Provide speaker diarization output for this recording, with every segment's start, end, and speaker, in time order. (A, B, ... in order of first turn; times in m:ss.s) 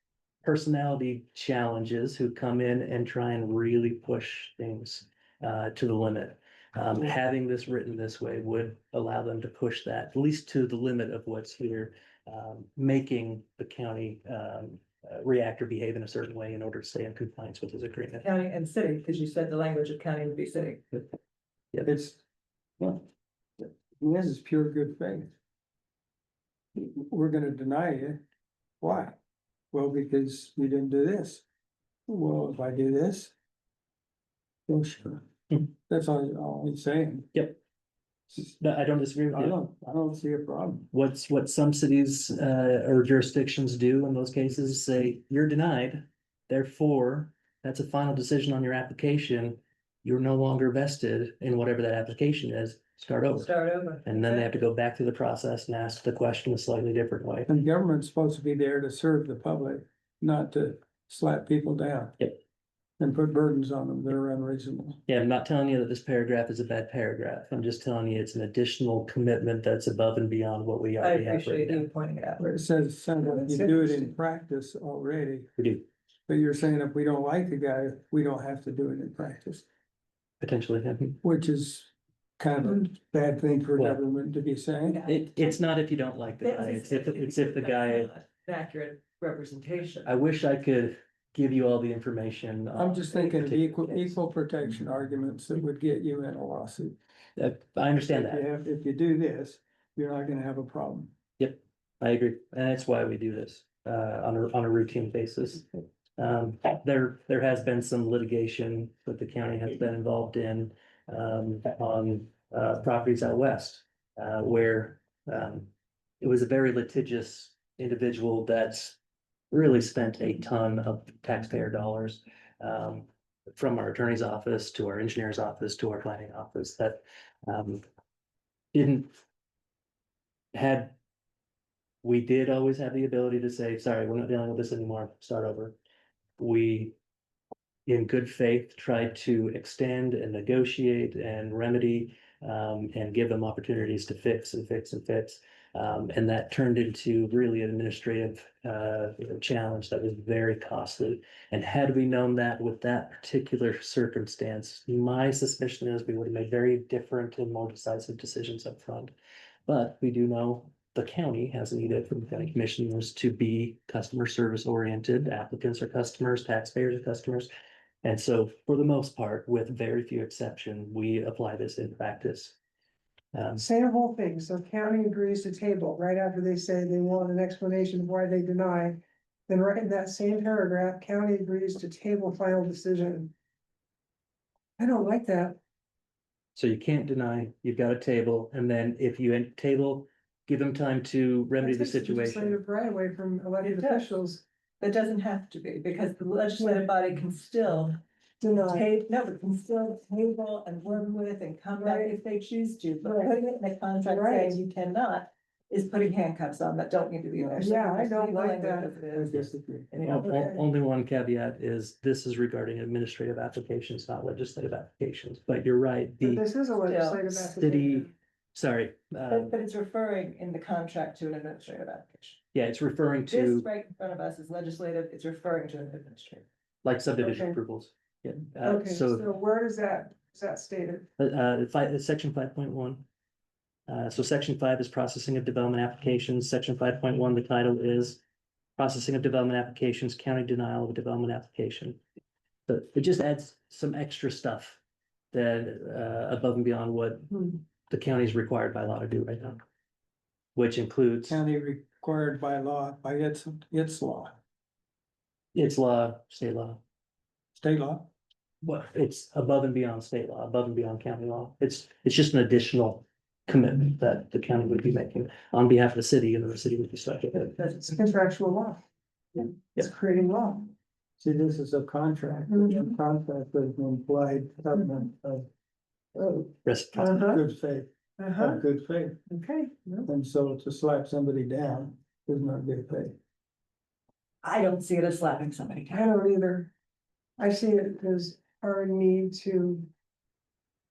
0:00.4-0:18.2 A
0:18.2-0:20.9 B
0:21.8-0:22.2 C
0:22.8-0:23.0 C
0:23.6-0:25.3 C
0:26.7-0:28.2 C
0:28.8-0:29.2 C
0:29.7-0:31.4 C
0:32.1-0:33.3 C
0:34.7-0:37.3 C
0:37.3-0:37.6 A
0:38.5-0:39.6 A
0:39.3-0:40.9 C
0:40.9-0:53.5 A
0:53.3-0:54.5 B
0:54.0-0:57.5 A
0:57.5-1:02.2 C
1:03.0-1:05.0 C
1:05.1-1:11.8 A
1:11.0-1:12.5 B
1:12.4-1:15.5 C
1:13.5-1:13.7 B
1:15.6-1:15.8 A
1:16.3-1:19.6 C
1:20.4-1:21.2 A
1:21.2-1:25.0 C
1:24.9-1:25.6 B
1:25.0-1:28.1 A
1:26.4-1:30.1 B
1:30.0-1:34.2 A
1:32.7-1:37.0 C
1:37.4-1:38.4 A
1:38.1-1:41.1 C
1:41.4-1:55.7 A
1:56.2-1:59.0 A
1:59.5-2:07.8 A
2:08.7-2:09.1 A
2:10.5-2:11.0 A
2:12.0-2:15.8 A
2:16.4-2:17.0 A
2:17.8-2:39.1 A
2:39.7-2:47.5 A
2:48.0-2:52.6 A
2:53.3-2:53.6 A
2:53.6-3:03.3 D
3:04.8-3:05.6 D
3:06.5-3:12.6 A
3:11.6-3:14.4 D
3:13.6-3:14.2 B
3:14.8-3:18.0 B
3:16.6-3:16.9 D
3:18.4-3:18.9 D
3:18.6-3:30.3 B
3:21.8-3:22.2 D
3:23.0-3:23.4 D
3:24.1-3:24.6 D
3:27.4-3:27.6 C
3:27.6-3:29.0 D
3:29.1-3:29.9 C
3:30.0-3:36.4 A
3:30.2-3:30.6 D
3:36.2-3:38.1 D
3:36.8-3:37.3 B
3:37.3-3:39.5 A
3:39.3-3:42.4 B
3:42.5-3:43.7 A
3:43.3-3:46.4 B
3:46.8-3:49.2 A
3:47.2-3:47.6 D
3:48.6-3:51.1 D
3:51.2-3:53.0 A
3:53.9-3:58.2 A
3:58.8-4:02.0 A
4:02.7-4:04.8 A
4:05.3-4:09.6 A
4:10.5-4:11.4 A
4:11.3-4:14.4 C
4:15.5-4:16.8 A
4:17.5-4:18.1 C
4:18.6-4:27.8 A
4:27.7-4:28.8 D
4:29.4-4:30.7 D
4:31.2-4:35.4 C
4:32.5-4:32.9 D
4:36.6-4:37.2 A
4:36.9-4:37.4 D
4:37.2-4:39.2 C
4:38.2-4:38.6 D
4:39.3-4:40.1 D
4:40.0-4:43.2 C
4:44.4-4:46.0 B
4:45.9-4:46.7 D
4:47.4-4:49.9 D